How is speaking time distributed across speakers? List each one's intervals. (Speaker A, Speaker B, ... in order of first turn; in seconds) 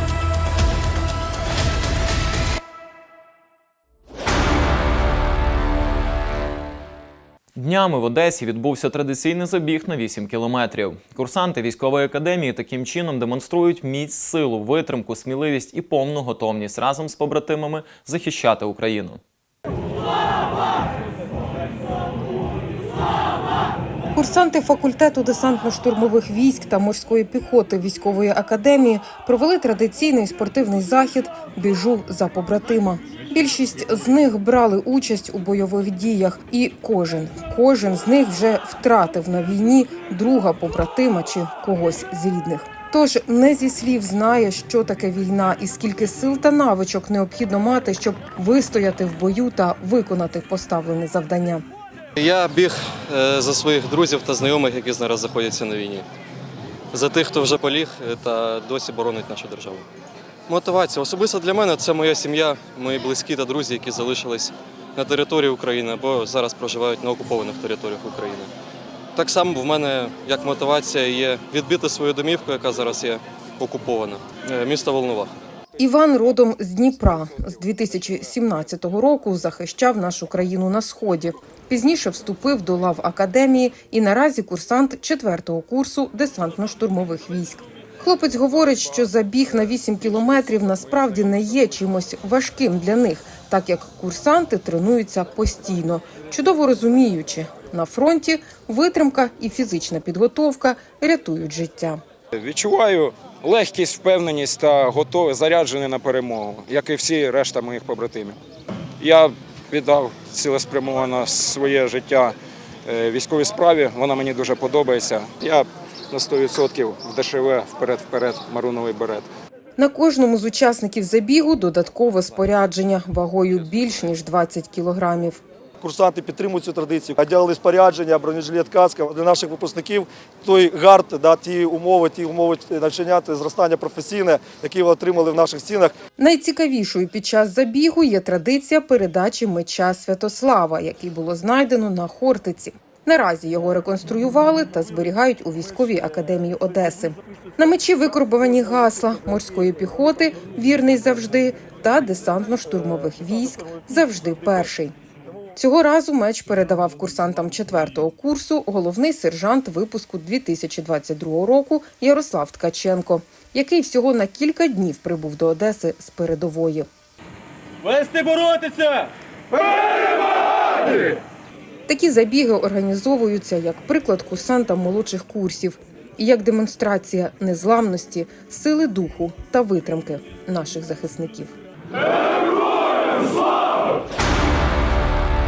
Speaker A: 7.6-19.2
Speaker B: 24.1-51.6, 75.8-102.0, 119.8-125.4, 136.2-154.9, 155.6-166.9, 171.9-181.5
Speaker C: 52.2-56.1, 56.9-59.9, 60.5-68.5, 69.2-75.3
Speaker D: 102.3-108.4, 109.0-112.3, 112.9-119.3
Speaker E: 125.8-135.9